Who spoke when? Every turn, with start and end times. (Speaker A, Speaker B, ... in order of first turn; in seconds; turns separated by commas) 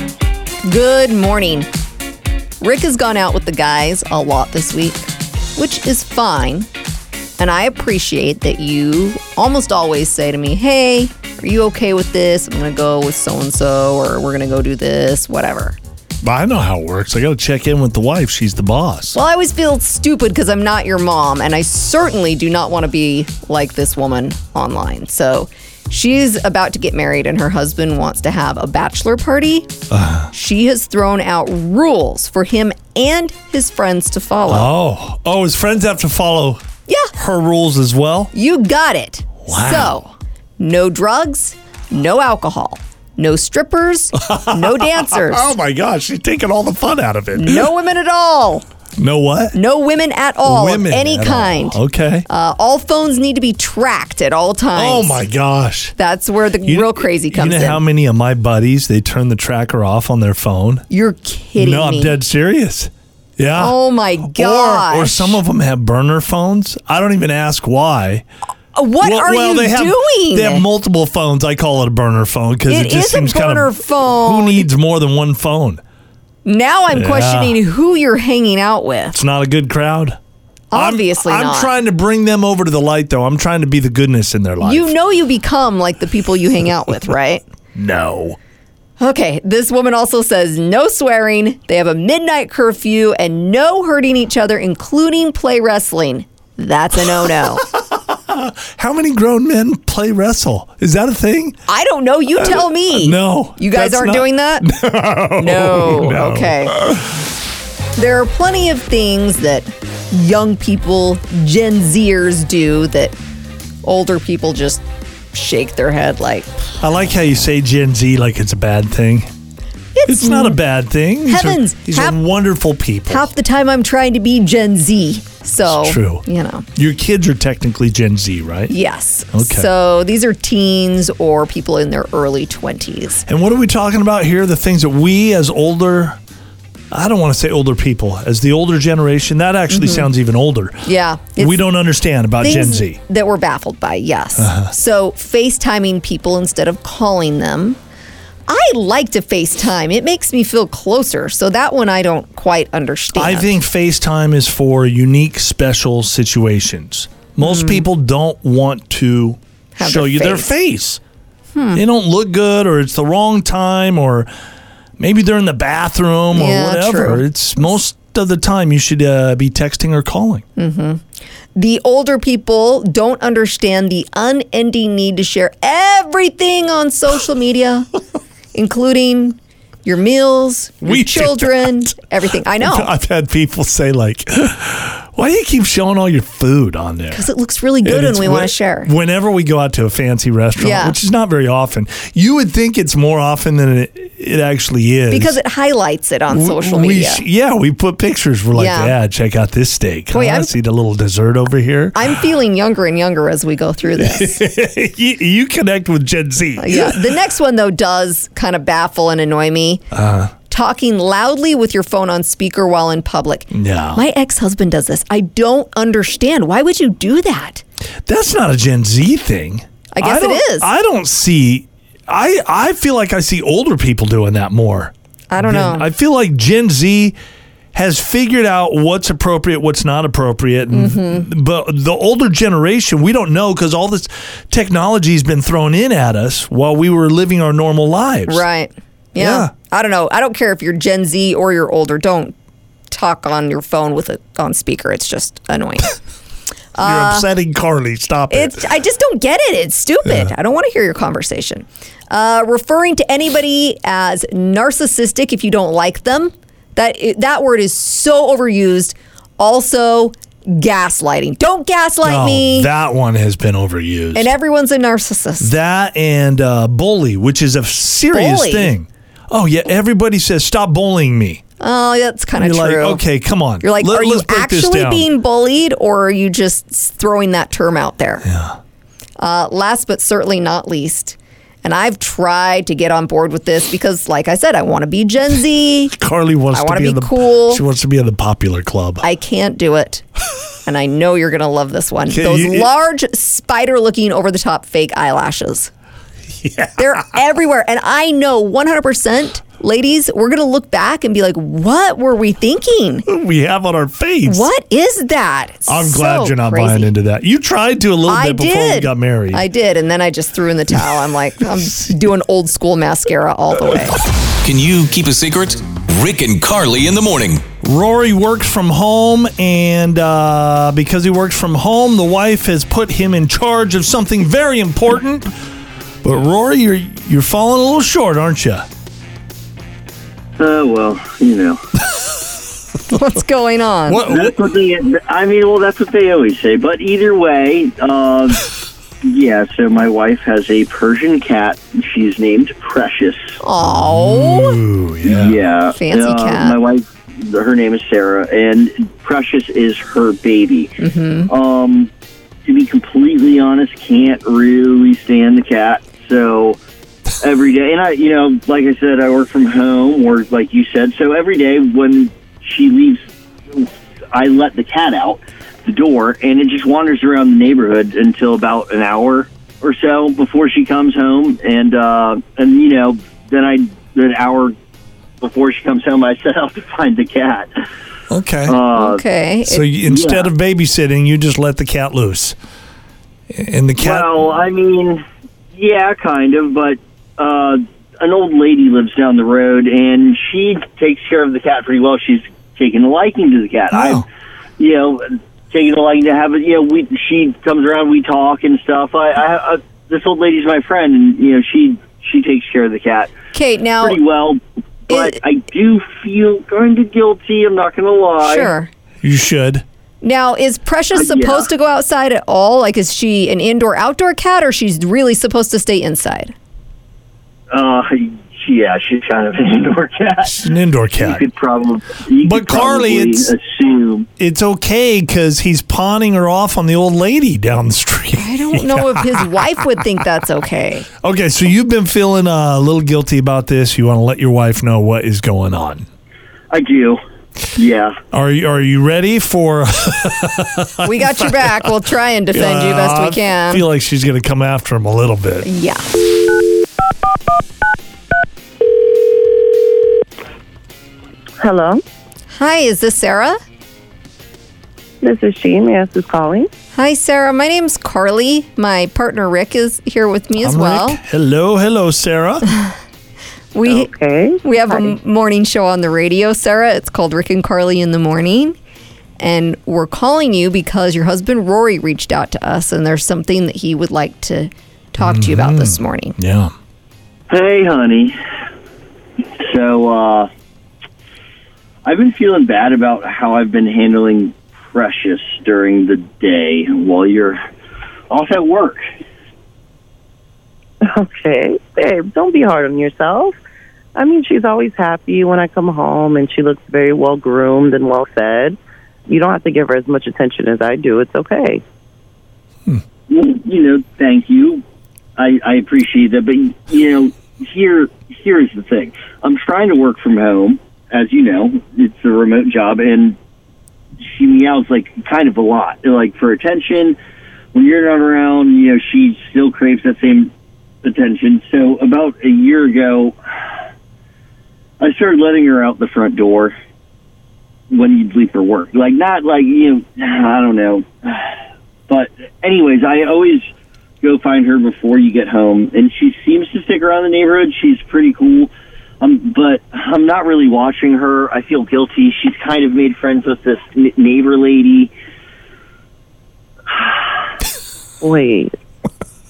Speaker A: 0.7-1.7, Speaker A: 2.6-6.7, Speaker A: 7.4-15.8, Speaker B: 16.2-19.2, Speaker A: 19.1-29.8, Speaker B: 29.9-30.3, Speaker A: 30.3-34.7, Speaker B: 34.5-36.6, Speaker B: 37.2-38.3, Speaker A: 38.3-45.5, Speaker B: 39.5-40.0, Speaker B: 44.2-47.7, Speaker A: 47.4-48.6, Speaker B: 49.0-49.6, Speaker A: 49.5-55.2, Speaker B: 50.4-52.3, Speaker B: 54.8-56.0, Speaker A: 56.0-57.8, Speaker B: 56.6-60.9, Speaker A: 60.9-62.2, Speaker B: 61.6-68.2, Speaker A: 63.6-65.4, Speaker A: 68.7-70.7, Speaker B: 69.0-75.8, Speaker A: 72.7-74.7, Speaker A: 76.5-79.2, Speaker B: 76.9-77.6, Speaker B: 79.1-80.2, Speaker A: 80.7-81.7, Speaker B: 80.7-84.9, Speaker A: 84.6-87.4, Speaker B: 87.8-88.4, Speaker A: 89.0-97.7, Speaker B: 97.2-101.6, Speaker A: 101.7-104.7, Speaker B: 102.4-107.1, Speaker A: 105.4-106.8, Speaker A: 108.0-113.2, Speaker A: 113.8-114.8, Speaker A: 115.3-116.5, Speaker B: 116.8-119.3, Speaker A: 120.0-120.6, Speaker B: 120.1-123.3, Speaker A: 121.3-122.2, Speaker A: 123.1-126.7, Speaker B: 125.6-126.2, Speaker B: 126.8-128.7, Speaker A: 128.7-133.2, Speaker B: 129.3-129.7, Speaker B: 133.3-136.2, Speaker B: 136.9-143.0, Speaker A: 139.7-140.1, Speaker A: 140.8-141.6, Speaker A: 142.4-147.8, Speaker B: 144.4-144.7, Speaker A: 148.5-153.6, Speaker B: 153.1-161.0, Speaker A: 157.4-157.8, Speaker A: 159.8-160.5, Speaker A: 161.5-161.8, Speaker B: 161.7-164.3, Speaker B: 165.0-170.4, Speaker A: 166.3-167.2, Speaker A: 170.6-171.0, Speaker A: 171.6-177.9, Speaker A: 178.5-182.9, Speaker B: 180.8-181.9, Speaker B: 182.6-187.3, Speaker A: 187.1-188.9, Speaker B: 187.8-195.4, Speaker A: 190.6-191.0, Speaker A: 195.1-197.2, Speaker B: 196.3-202.2, Speaker A: 198.5-198.9, Speaker A: 200.1-200.5, Speaker A: 201.9-204.4, Speaker B: 204.0-207.1, Speaker A: 206.6-209.8, Speaker B: 209.9-210.3, Speaker A: 210.5-217.6, Speaker B: 213.5-214.0, Speaker B: 218.1-227.2, Speaker A: 219.9-220.7, Speaker A: 225.3-225.9, Speaker B: 227.7-238.4, Speaker A: 230.7-231.3, Speaker A: 238.3-242.3, Speaker B: 239.2-239.5, Speaker A: 242.9-246.0, Speaker A: 246.8-247.3, Speaker B: 246.8-248.7, Speaker A: 248.3-262.7, Speaker B: 250.1-250.3, Speaker B: 262.0-264.3, Speaker A: 264.1-265.5, Speaker B: 265.4-271.4, Speaker A: 268.1-268.7, Speaker A: 271.6-273.0, Speaker B: 272.4-275.1, Speaker A: 273.6-278.3, Speaker B: 278.2-278.6, Speaker A: 279.2-285.9, Speaker B: 285.9-289.0, Speaker A: 286.5-287.6, Speaker A: 289.0-290.0, Speaker A: 290.7-295.7, Speaker B: 292.1-292.7, Speaker B: 296.4-297.1, Speaker A: 296.8-303.1, Speaker B: 303.1-304.5, Speaker A: 304.2-306.9, Speaker B: 305.7-309.5, Speaker A: 308.1-314.0, Speaker C: 314.4-317.5, Speaker B: 317.6-325.3, Speaker B: 326.0-328.7, Speaker D: 330.4-331.6, Speaker A: 332.9-334.1, Speaker B: 333.9-334.4, Speaker D: 334.1-338.5, Speaker D: 339.0-343.4, Speaker A: 343.4-344.6, Speaker B: 343.6-345.4, Speaker D: 345.0-351.9, Speaker A: 345.7-346.6, Speaker A: 350.8-351.3, Speaker D: 352.4-356.6, Speaker D: 357.2-363.0, Speaker D: 363.5-374.5, Speaker D: 375.2-377.5, Speaker B: 378.1-378.6, Speaker D: 378.5-379.0, Speaker A: 378.7-379.8, Speaker B: 379.5-382.4, Speaker D: 379.9-380.2, Speaker B: 383.3-384.2, Speaker D: 383.8-394.1, Speaker B: 393.7-394.1, Speaker D: 394.6-403.1, Speaker A: 403.3-404.0, Speaker D: 403.8-408.5, Speaker A: 404.9-405.2, Speaker A: 408.2-408.7, Speaker B: 409.0-409.6, Speaker A: 410.0-416.3, Speaker D: 410.9-411.5, Speaker D: 417.5-420.4, Speaker B: 420.2-421.2, Speaker D: 421.0-424.1, Speaker B: 422.2-423.3, Speaker B: 424.2-429.7, Speaker A: 428.1-430.9, Speaker B: 431.0-435.9, Speaker D: 436.5-437.0, Speaker D: 437.6-438.0, Speaker B: 438.1-441.7, Speaker A: 440.8-443.6, Speaker B: 442.3-445.5, Speaker A: 445.4-445.9, Speaker E: 451.4-451.8, Speaker A: 452.3-453.4, Speaker E: 455.0-456.5, Speaker A: 456.7-461.0, Speaker B: 460.4-462.5, Speaker A: 463.5-463.9, Speaker E: 463.7-465.0, Speaker A: 464.4-468.6, Speaker A: 469.2-476.2, Speaker B: 475.0-476.5, Speaker D: 477.3-478.1, Speaker D: 479.4-480.3, Speaker D: 481.9-487.4, Speaker D: 488.1-488.8, Speaker E: 490.8-493.3, Speaker E: 494.0-498.6, Speaker E: 499.1-501.6, Speaker D: 503.1-504.6, Speaker D: 505.2-513.2, Speaker D: 514.0-517.0, Speaker D: 517.5-520.3, Speaker D: 520.8-523.2, Speaker D: 524.8-526.5, Speaker D: 527.7-531.3, Speaker D: 531.9-533.5, Speaker D: 534.0-538.5, Speaker D: 539.0-544.9, Speaker D: 546.7-547.0, Speaker E: 548.0-548.5